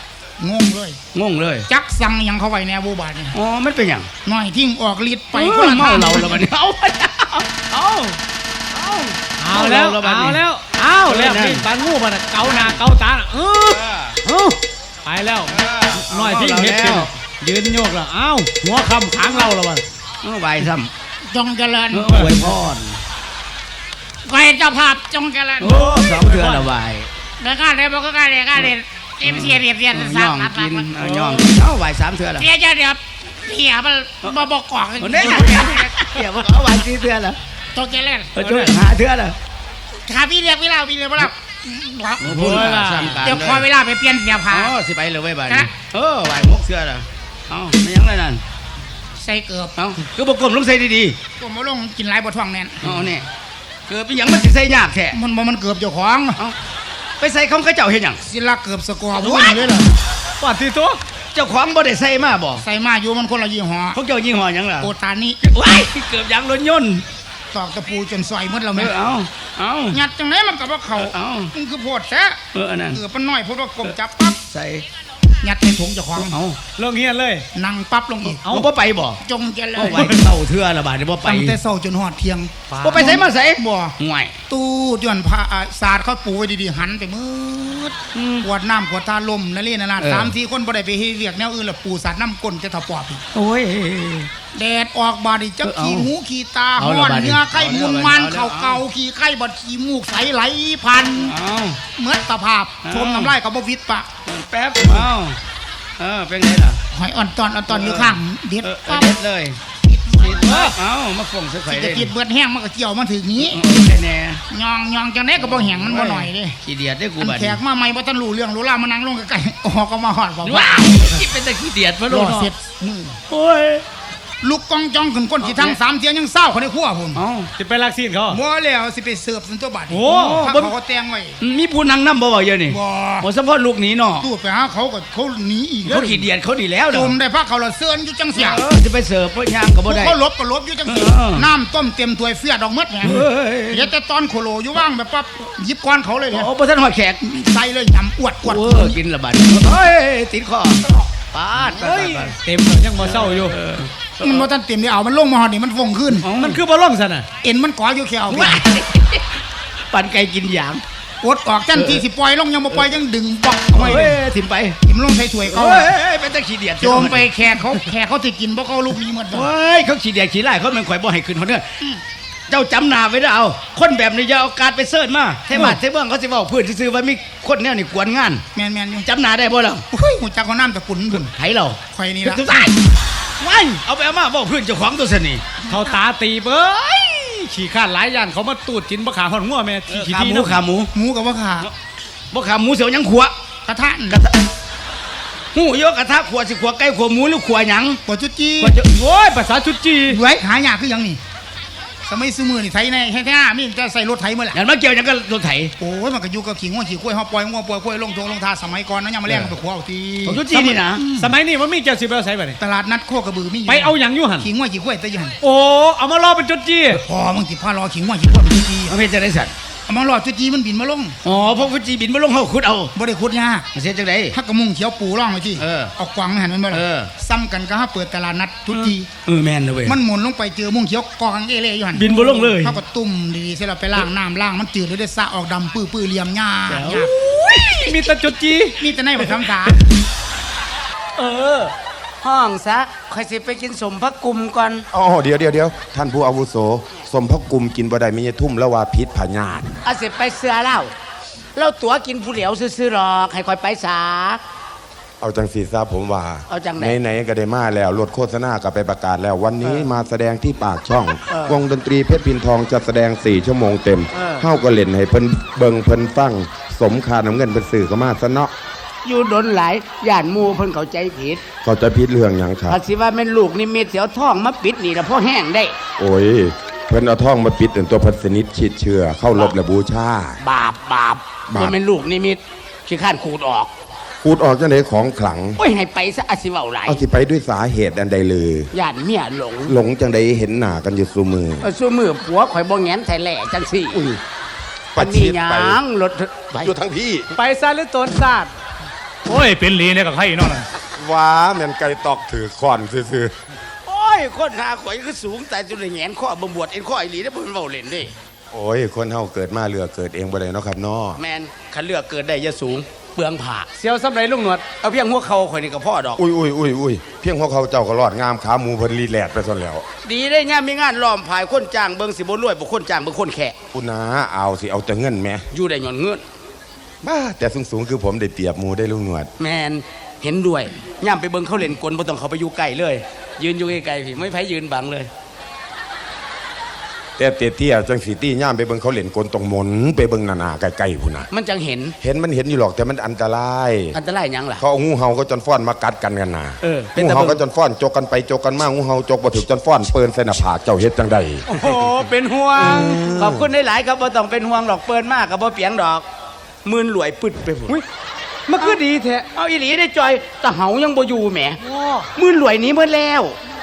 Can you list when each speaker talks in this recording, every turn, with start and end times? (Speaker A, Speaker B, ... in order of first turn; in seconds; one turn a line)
Speaker A: 0.4-1.0
Speaker B: 1.1-1.7
Speaker A: 1.7-3.3
Speaker B: 3.3-4.1
Speaker A: 4.2-6.4
Speaker B: 5.3-8.2
Speaker B: 8.8-10.4
Speaker C: 9.3-19.8
Speaker B: 11.1-11.6
Speaker B: 13.8-14.2
Speaker B: 15.5-17.1
Speaker B: 20.2-20.9
Speaker A: 21.2-22.5
Speaker B: 21.9-23.0
Speaker A: 24.2-26.4
Speaker B: 25.6-27.1
Speaker C: 25.7-26.6
Speaker A: 27.4-30.9
Speaker B: 29.2-32.5
Speaker C: 31.0-31.4
Speaker A: 32.4-36.2
Speaker B: 35.0-37.4
Speaker A: 37.7-38.4
Speaker B: 38.4-39.4
Speaker C: 38.4-38.7
Speaker A: 40.1-42.6
Speaker B: 42.2-43.6
Speaker C: 42.3-43.2
Speaker A: 43.2-44.8
Speaker B: 44.5-48.4
Speaker A: 49.1-49.8
Speaker B: 49.8-51.2
Speaker A: 51.4-53.0
Speaker B: 52.8-53.3
Speaker B: 53.9-55.2
Speaker A: 55.1-56.4
Speaker B: 57.2-58.2
Speaker A: 58.2-59.9
Speaker B: 59.2-59.6
Speaker C: 60.4-61.0
Speaker B: 61.4-62.6
Speaker A: 62.6-64.0
Speaker B: 63.9-64.9
Speaker A: 64.8-65.4
Speaker B: 65.4-67.0
Speaker A: 67.5-69.0
Speaker B: 68.8-70.0
Speaker A: 69.9-72.4
Speaker B: 71.0-71.5
Speaker B: 72.5-73.0
Speaker A: 72.9-74.4
Speaker B: 74.5-74.8
Speaker A: 75.4-76.4
Speaker B: 76.2-76.6
Speaker C: 76.8-77.5
Speaker A: 77.5-78.4
Speaker B: 78.5-79.2
Speaker A: 79.2-80.3
Speaker B: 79.8-81.6
Speaker C: 79.9-80.2
Speaker A: 81.2-84.0
Speaker C: 82.7-83.2
Speaker B: 82.8-84.3
Speaker A: 84.5-93.2
Speaker B: 88.1-88.5
Speaker B: 90.0-90.3
Speaker B: 93.3-94.3
Speaker A: 94.5-101.4
Speaker B: 95.6-96.1
Speaker B: 96.8-98.8
Speaker B: 101.2-101.8
Speaker A: 102.0-104.1
Speaker B: 102.8-103.3
Speaker B: 104.3-105.4
Speaker B: 106.0-106.8
Speaker A: 106.9-109.1
Speaker B: 107.7-109.6
Speaker A: 109.8-110.8
Speaker B: 110.2-112.1
Speaker A: 111.7-113.6
Speaker B: 113.5-114.4
Speaker A: 114.5-116.6
Speaker B: 115.4-117.6
Speaker A: 117.2-121.2
Speaker B: 120.4-122.5
Speaker A: 122.1-123.2
Speaker B: 123.3-123.8
Speaker A: 124.4-127.2
Speaker B: 125.4-125.8
Speaker B: 127.2-127.5
Speaker C: 127.6-128.4
Speaker A: 128.3-131.4
Speaker C: 129.9-130.7
Speaker B: 130.1-130.6
Speaker B: 131.4-134.3
Speaker A: 132.7-133.3
Speaker A: 134.2-136.3
Speaker B: 135.8-137.2
Speaker A: 136.9-138.6
Speaker B: 138.4-140.2
Speaker A: 139.9-146.5
Speaker B: 140.9-141.5
Speaker B: 143.0-143.9
Speaker B: 146.3-147.2
Speaker A: 147.2-149.0
Speaker B: 148.4-152.3
Speaker C: 151.7-153.6
Speaker B: 153.0-154.5
Speaker A: 154.2-156.3
Speaker B: 156.2-156.6
Speaker C: 156.3-157.3
Speaker A: 157.4-158.7
Speaker B: 158.3-159.4
Speaker B: 159.9-160.8
Speaker A: 161.2-164.2
Speaker B: 161.8-162.0
Speaker B: 163.7-164.8
Speaker A: 164.8-165.9
Speaker B: 165.5-167.3
Speaker A: 166.8-169.5
Speaker B: 169.3-171.7
Speaker B: 172.5-178.4
Speaker A: 175.5-175.8
Speaker A: 178.6-179.1
Speaker B: 179.1-179.8
Speaker A: 179.9-181.3
Speaker B: 181.2-182.9
Speaker A: 181.9-182.7
Speaker C: 183.4-183.8
Speaker B: 183.6-185.4
Speaker C: 185.7-190.6
Speaker B: 189.9-190.9
Speaker A: 190.9-191.7
Speaker B: 192.3-193.3
Speaker A: 193.7-194.2
Speaker B: 195.5-198.0
Speaker A: 198.1-198.8
Speaker B: 198.6-198.9
Speaker C: 198.8-200.2
Speaker A: 200.1-201.2
Speaker A: 202.1-204.6
Speaker B: 204.5-205.7
Speaker A: 205.8-211.3
Speaker B: 210.2-211.0
Speaker C: 211.1-212.6
Speaker A: 212.6-215.3
Speaker C: 213.7-214.5
Speaker C: 215.4-217.0
Speaker A: 216.9-218.9
Speaker B: 218.9-219.5
Speaker A: 219.9-221.2
Speaker B: 221.2-222.9
Speaker A: 222.9-223.7
Speaker B: 223.7-224.4
Speaker A: 224.3-229.1
Speaker B: 225.6-225.9
Speaker B: 226.7-227.1
Speaker B: 228.8-230.0
Speaker A: 229.8-237.1
Speaker B: 231.9-232.8
Speaker C: 232.0-232.6
Speaker B: 236.7-238.1
Speaker C: 237.6-239.4
Speaker A: 238.8-239.8
Speaker B: 241.2-241.7
Speaker B: 242.2-244.9
Speaker D: 244.9-249.7
Speaker B: 249.8-250.9
Speaker B: 251.6-254.4
Speaker D: 255.2-268.5
Speaker B: 256.5-257.0
Speaker B: 261.3-261.6
Speaker B: 264.1-264.4
Speaker B: 269.0-271.4
Speaker D: 271.6-272.8
Speaker B: 272.7-275.8
Speaker D: 276.0-280.4
Speaker B: 280.4-283.7
Speaker D: 281.5-281.8
Speaker D: 284.2-285.6
Speaker B: 285.6-287.0
Speaker D: 286.9-288.7
Speaker B: 288.7-289.8
Speaker D: 289.7-291.7
Speaker B: 291.6-294.2
Speaker D: 294.9-295.8
Speaker B: 295.0-296.8
Speaker D: 296.6-297.3
Speaker C: 297.4-298.5
Speaker C: 299.3-300.7
Speaker D: 301.0-303.3
Speaker B: 303.9-308.1
Speaker D: 308.5-311.2
Speaker B: 311.2-313.9
Speaker C: 313.8-314.6
Speaker B: 314.6-316.2
Speaker D: 316.2-319.8
Speaker B: 320.0-323.6
Speaker D: 323.7-325.5
Speaker B: 325.5-326.2
Speaker D: 327.0-329.3
Speaker B: 329.4-335.1
Speaker D: 337.2-341.3
Speaker B: 341.3-341.9
Speaker D: 342.0-344.0
Speaker B: 343.9-344.6
Speaker D: 344.6-351.5
Speaker B: 346.6-347.4
Speaker C: 351.5-353.0
Speaker B: 351.5-356.1
Speaker D: 352.6-353.5
Speaker B: 356.6-357.8
Speaker C: 358.5-359.3
Speaker B: 359.3-361.6
Speaker C: 361.6-362.1
Speaker B: 362.2-363.4